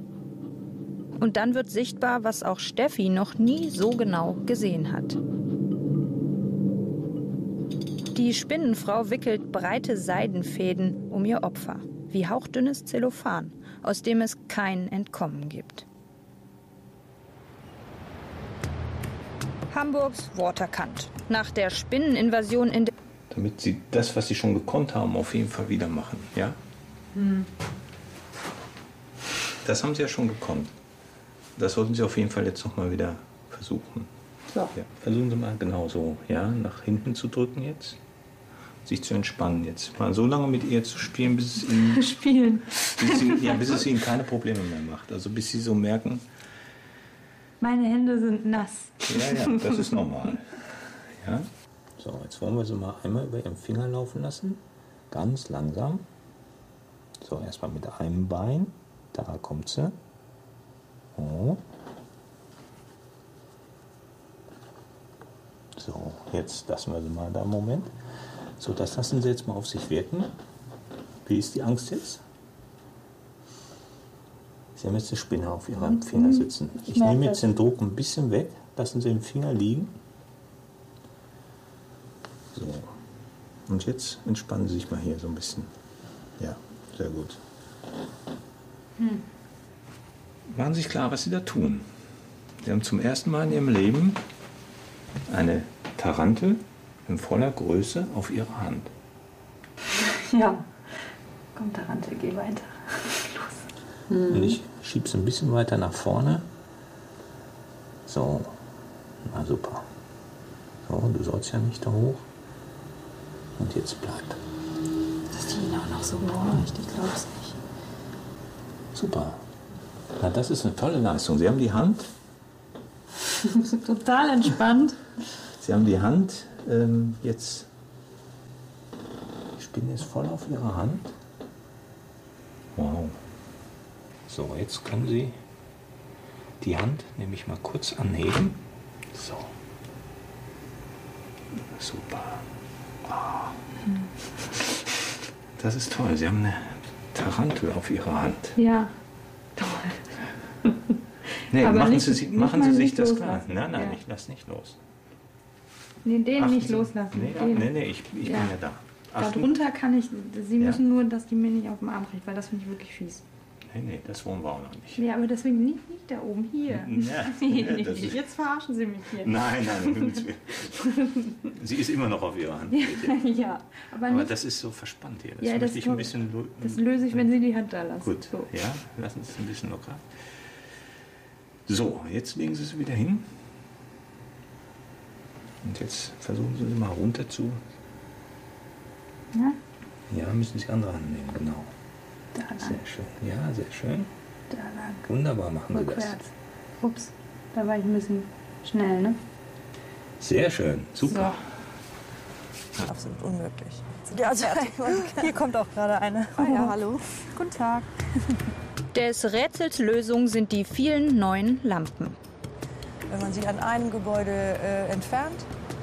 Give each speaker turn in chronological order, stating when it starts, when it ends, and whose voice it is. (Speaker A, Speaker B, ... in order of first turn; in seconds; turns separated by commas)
Speaker A: 1.2-5.2, Speaker A: 8.1-15.8, Speaker A: 19.7-22.9, Speaker B: 23.3-26.6, Speaker C: 27.1-27.5, Speaker B: 29.6-30.7, Speaker B: 31.6-34.1, Speaker B: 34.7-38.0, Speaker B: 38.8-42.1, Speaker C: 41.9-43.6, Speaker B: 42.9-46.3, Speaker C: 47.6-49.8, Speaker B: 49.0-56.0, Speaker B: 57.2-60.0, Speaker B: 61.1-61.6, Speaker B: 65.7-67.9, Speaker B: 68.6-70.4, Speaker B: 71.2-72.2, Speaker B: 74.8-79.9, Speaker C: 75.8-77.4, Speaker B: 82.5-83.0, Speaker B: 83.7-85.7, Speaker B: 86.4-87.4, Speaker B: 90.5-91.9, Speaker B: 92.6-94.2, Speaker B: 95.3-98.9, Speaker C: 99.9-104.6, Speaker B: 104.2-106.5, Speaker B: 108.0-108.6, Speaker B: 109.2-109.9, Speaker B: 110.8-112.3, Speaker B: 113.6-114.4, Speaker C: 115.3-117.6, Speaker B: 118.9-119.4, Speaker B: 120.2-122.1, Speaker C: 123.4-125.0, Speaker B: 125.5-127.7, Speaker B: 129.6-131.2, Speaker B: 132.7-133.2, Speaker B: 134.3-135.4, Speaker B: 136.6-139.5, Speaker B: 141.7-142.4, Speaker B: 143.0-143.6, Speaker B: 144.6-144.9, Speaker B: 145.6-148.6, Speaker C: 148.6-148.9, Speaker C: 149.6-150.1, Speaker B: 151.5-154.8, Speaker C: 151.5-154.0, Speaker C: 156.0-157.7, Speaker B: 156.4-159.5, Speaker C: 158.2-158.5, Speaker C: 159.2-163.2, Speaker B: 160.6-160.8, Speaker B: 163.7-165.1, Speaker C: 165.0-171.5, Speaker B: 166.7-168.3, Speaker B: 169.1-170.7, Speaker B: 171.4-173.2, Speaker C: 172.7-174.3, Speaker B: 174.1-177.3, Speaker C: 175.4-178.5, Speaker B: 178.0-180.2, Speaker B: 181.7-183.3, Speaker B: 185.6-187.6, Speaker C: 189.3-189.6, Speaker B: 190.1-191.7, Speaker C: 192.3-192.8, Speaker B: 192.6-194.1, Speaker C: 194.5-195.0, Speaker B: 195.0-196.2, Speaker C: 195.7-196.3, Speaker C: 196.8-199.2, Speaker B: 200.2-201.3, Speaker C: 201.0-201.4, Speaker D: 202.8-205.4, Speaker C: 204.2-206.8, Speaker D: 206.3-207.2, Speaker C: 207.3-208.3, Speaker A: 208.9-212.2, Speaker D: 213.1-215.5